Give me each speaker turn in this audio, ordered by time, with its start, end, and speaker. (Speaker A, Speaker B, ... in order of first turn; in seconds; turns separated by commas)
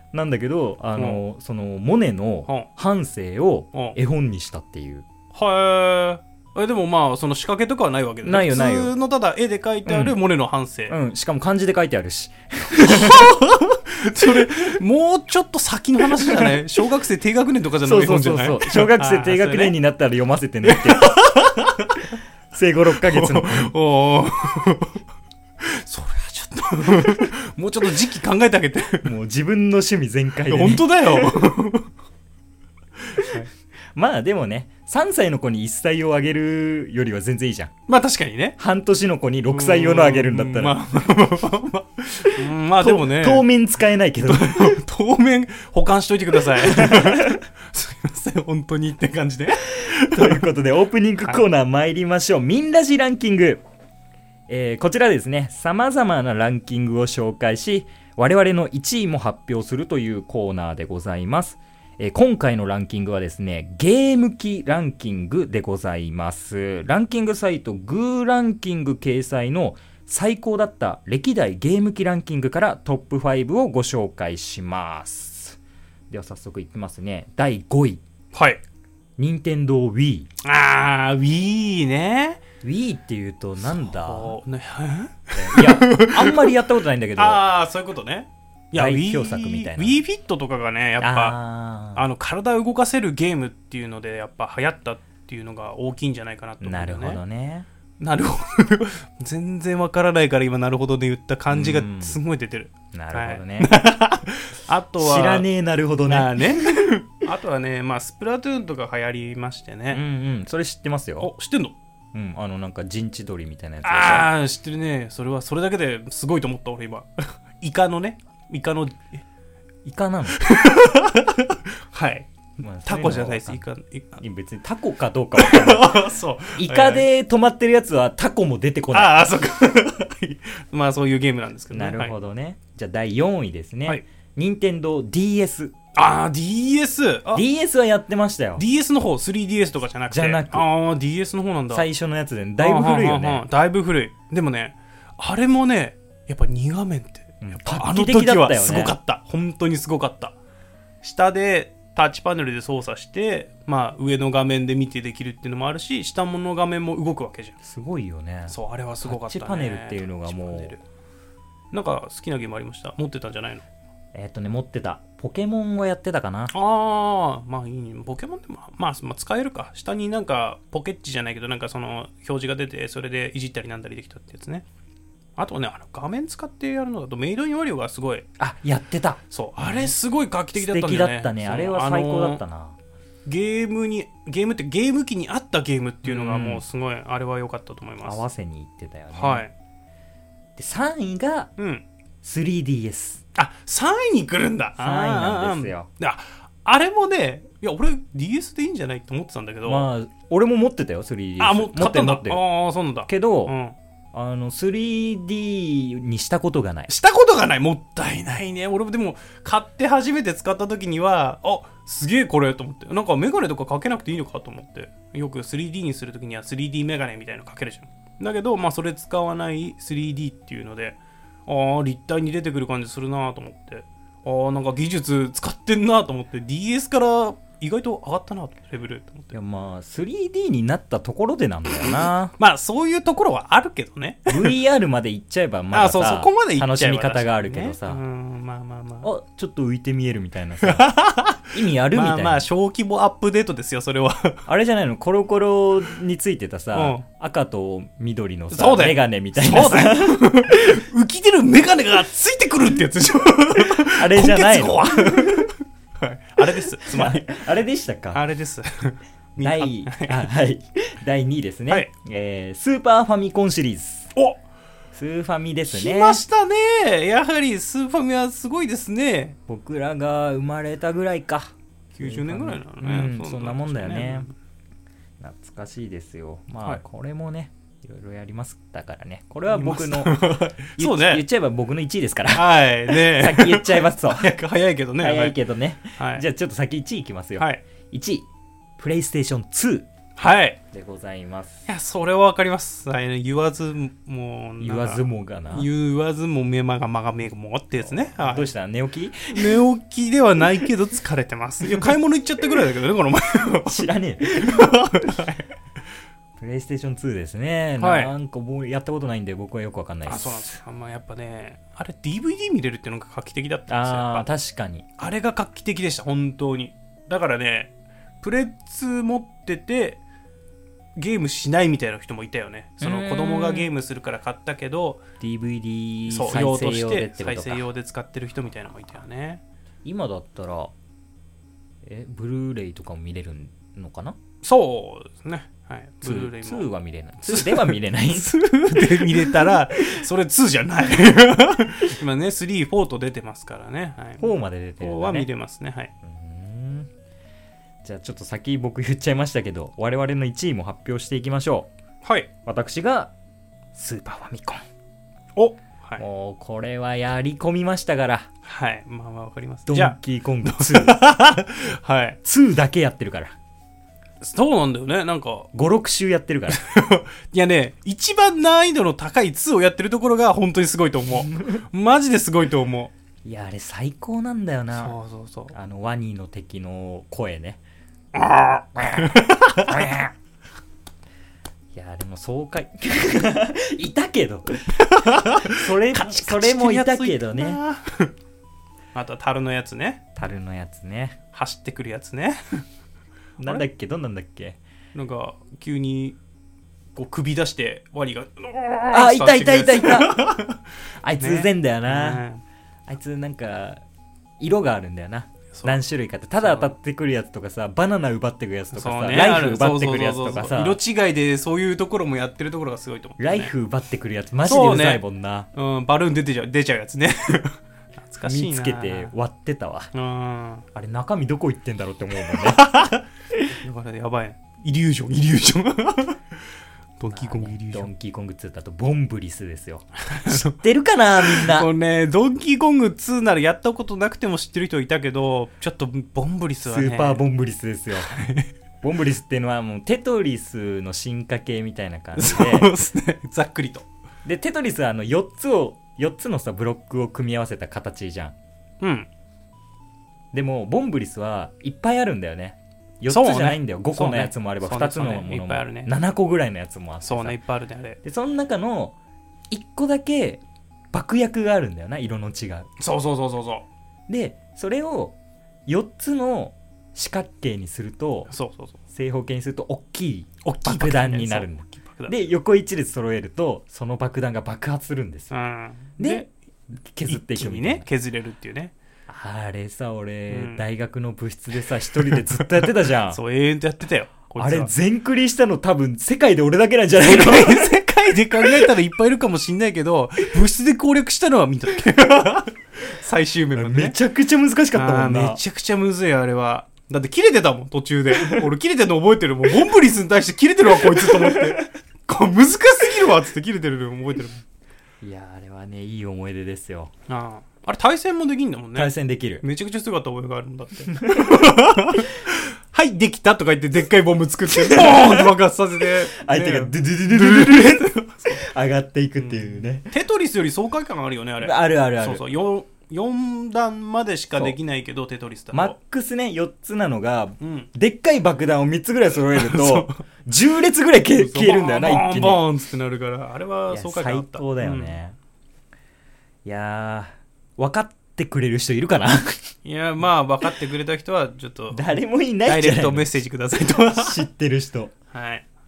Speaker A: 0.1-5.1, Speaker B: 5.3-11.0, Speaker A: 8.2-8.9, Speaker A: 9.8-10.2, Speaker A: 10.9-13.4, Speaker B: 12.7-19.8, Speaker A: 14.2-14.8, Speaker A: 16.1-16.6, Speaker A: 17.8-21.2, Speaker B: 20.6-22.1, Speaker A: 22.5-23.7, Speaker B: 23.0-25.0, Speaker B: 25.6-29.1, Speaker A: 29.0-31.5, Speaker B: 30.5-31.9, Speaker B: 33.1-33.5, Speaker A: 33.9-37.7, Speaker B: 37.9-38.6, Speaker A: 38.6-40.8, Speaker B: 39.5-43.5, Speaker A: 42.8-44.8, Speaker B: 44.2-50.5, Speaker A: 46.6-47.4, Speaker A: 49.7-53.6, Speaker A: 54.5-75.6, Speaker A: 76.1-78.0, Speaker B: 78.3-78.6, Speaker A: 79.2-80.3, Speaker B: 80.4-82.4, Speaker A: 82.6-84.4, Speaker B: 83.9-86.6, Speaker A: 85.3-87.4, Speaker B: 87.2-91.4, Speaker A: 88.7-90.0, Speaker A: 91.0-92.0, Speaker B: 91.9-97.2, Speaker A: 96.6-97.7, Speaker B: 98.0-105.5, Speaker A: 101.5-102.2, Speaker A: 102.9-103.7, Speaker A: 105.0-106.8, Speaker B: 106.1-110.0, Speaker A: 109.9-111.3, Speaker B: 111.2-111.8, Speaker A: 112.1-114.3, Speaker B: 113.8-119.2, Speaker A: 119.8-120.4, Speaker B: 120.4-122.3, Speaker A: 122.6-123.7, Speaker B: 122.8-124.2, Speaker A: 124.2-126.0, Speaker B: 125.3-127.0, Speaker A: 126.6-129.2, Speaker B: 128.9-132.1, Speaker A: 131.7-135.7, Speaker B: 135.9-137.4, Speaker A: 137.3-138.6, Speaker B: 138.6-141.9, Speaker A: 140.1-140.7, Speaker A: 141.7-143.4, Speaker B: 142.6-150.3, Speaker A: 147.4-148.9, Speaker B: 151.0-157.5, Speaker A: 157.6-160.8, Speaker B: 158.5-160.8, Speaker B: 161.7-163.7, Speaker A: 164.1-166.5, Speaker B: 166.5-174.7, Speaker B: 175.4-178.3, Speaker A: 178.4-179.9, Speaker B: 179.3-182.4, Speaker A: 180.5-182.8, Speaker B: 183.3-188.2, Speaker A: 186.0-186.6, Speaker A: 188.0-189.5, Speaker B: 189.2-189.5, Speaker A: 190.6-191.5, Speaker B: 191.6-191.8, Speaker A: 192.2-193.2, Speaker B: 193.3-199.9, Speaker A: 194.8-195.9, Speaker A: 199.7-202.4, Speaker B: 201.4-203.7, Speaker A: 203.1-203.5, Speaker A: 204.1-206.9, Speaker B: 206.9-229.3, Speaker A: 229.3-232.3, Speaker B: 232.4-234.6, Speaker A: 234.3-238.0, Speaker B: 235.7-239.1, Speaker A: 239.0-240.9, Speaker B: 240.6-244.4, Speaker A: 241.5-242.5, Speaker A: 244.5-250.8, Speaker B: 246.7-247.1, Speaker B: 248.5-257.4, Speaker A: 253.9-255.5, Speaker A: 256.8-258.2, Speaker B: 258.1-260.3, Speaker A: 259.4-264.1, Speaker A: 264.9-266.2, Speaker B: 265.7-269.4, Speaker A: 269.5-274.3, Speaker B: 271.9-274.3, Speaker A: 275.2-284.3, Speaker B: 279.5-281.2, Speaker B: 282.3-285.4, Speaker A: 285.0-288.2, Speaker B: 286.0-286.2, Speaker A: 288.8-289.9, Speaker B: 290.2-290.6, Speaker A: 290.7-291.6, Speaker B: 291.6-298.5, Speaker A: 294.6-295.7, Speaker A: 297.8-299.6, Speaker B: 299.3-305.5, Speaker A: 303.6-305.0, Speaker A: 306.4-310.6, Speaker B: 307.8-308.1, Speaker B: 310.1-314.3, Speaker A: 313.7-314.9, Speaker B: 315.0-320.0, Speaker B: 321.0-325.0, Speaker A: 322.8-323.7, Speaker A: 325.2-327.7, Speaker B: 326.1-329.4, Speaker A: 329.8-330.7, Speaker A: 331.8-334.2, Speaker B: 334.4-336.7, Speaker A: 336.0-339.6, Speaker B: 337.2-345.9, Speaker A: 344.2-345.3, Speaker A: 346.0-346.9, Speaker A: 347.8-351.7, Speaker B: 352.0-352.3, Speaker A: 352.5-353.1, Speaker A: 353.7-354.6, Speaker B: 355.4-356.0, Speaker A: 356.0-358.3, Speaker B: 358.4-362.2, Speaker A: 359.7-361.0, Speaker A: 362.2-363.4, Speaker B: 364.2-365.5, Speaker A: 365.5-366.6, Speaker B: 366.5-372.9, Speaker A: 371.2-371.6, Speaker A: 373.2-375.0, Speaker B: 374.8-375.5, Speaker A: 375.5-377.6, Speaker B: 378.1-380.1, Speaker A: 381.7-384.7, Speaker B: 384.7-388.1, Speaker A: 385.4-387.6, Speaker B: 388.9-390.0, Speaker A: 390.1-391.2, Speaker B: 391.3-392.6, Speaker A: 393.4-394.6, Speaker B: 394.9-396.2, Speaker B: 396.9-400.6, Speaker A: 398.9-400.2, Speaker A: 401.0-402.2, Speaker B: 401.2-402.4, Speaker A: 402.9-403.8, Speaker A: 404.4-410.8, Speaker B: 405.5-405.8, Speaker B: 406.4-406.8, Speaker B: 408.7-413.5, Speaker A: 413.2-415.5, Speaker B: 414.4-415.0, Speaker B: 415.5-419.1, Speaker A: 418.2-419.9, Speaker B: 419.9-420.6, Speaker A: 420.7-422.6, Speaker B: 422.4-426.2, Speaker B: 427.0-427.9, Speaker A: 427.1-431.7, Speaker B: 430.1-430.6, Speaker B: 431.2-437.2, Speaker A: 436.6-438.1, Speaker B: 437.9-438.5, Speaker A: 438.8-442.7, Speaker B: 442.1-443.9, Speaker A: 444.2-448.4, Speaker B: 448.8-449.1, Speaker A: 450.3-457.4, Speaker B: 453.1-455.9, Speaker B: 457.0-458.0, Speaker A: 458.0-459.0, Speaker A: 459.5-462.7, Speaker B: 462.8-463.6, Speaker A: 464.1-468.3, Speaker B: 468.3-468.8, Speaker A: 468.9-475.3, Speaker B: 470.4-472.3, Speaker B: 475.3-476.3, Speaker A: 476.0-477.9, Speaker B: 477.1-478.7, Speaker A: 479.1-483.2, Speaker B: 480.3-480.6, Speaker B: 482.1-484.7, Speaker A: 484.4-487.7, Speaker B: 487.0-494.0, Speaker A: 493.6-495.4, Speaker B: 494.7-504.4, Speaker A: 501.0-501.4, Speaker A: 505.0-506.9, Speaker B: 507.1-518.4, Speaker A: 508.8-509.4, Speaker A: 511.1-511.4, Speaker A: 514.5-515.4, Speaker A: 516.1-519.9, Speaker B: 519.2-525.8, Speaker A: 521.4-522.2, Speaker A: 525.5-532.4, Speaker B: 527.4-527.7, Speaker B: 529.3-530.0, Speaker B: 531.1-535.0, Speaker A: 533.7-535.1, Speaker A: 536.5-539.5, Speaker B: 539.6-544.2, Speaker A: 541.7-544.9, Speaker B: 545.1-545.5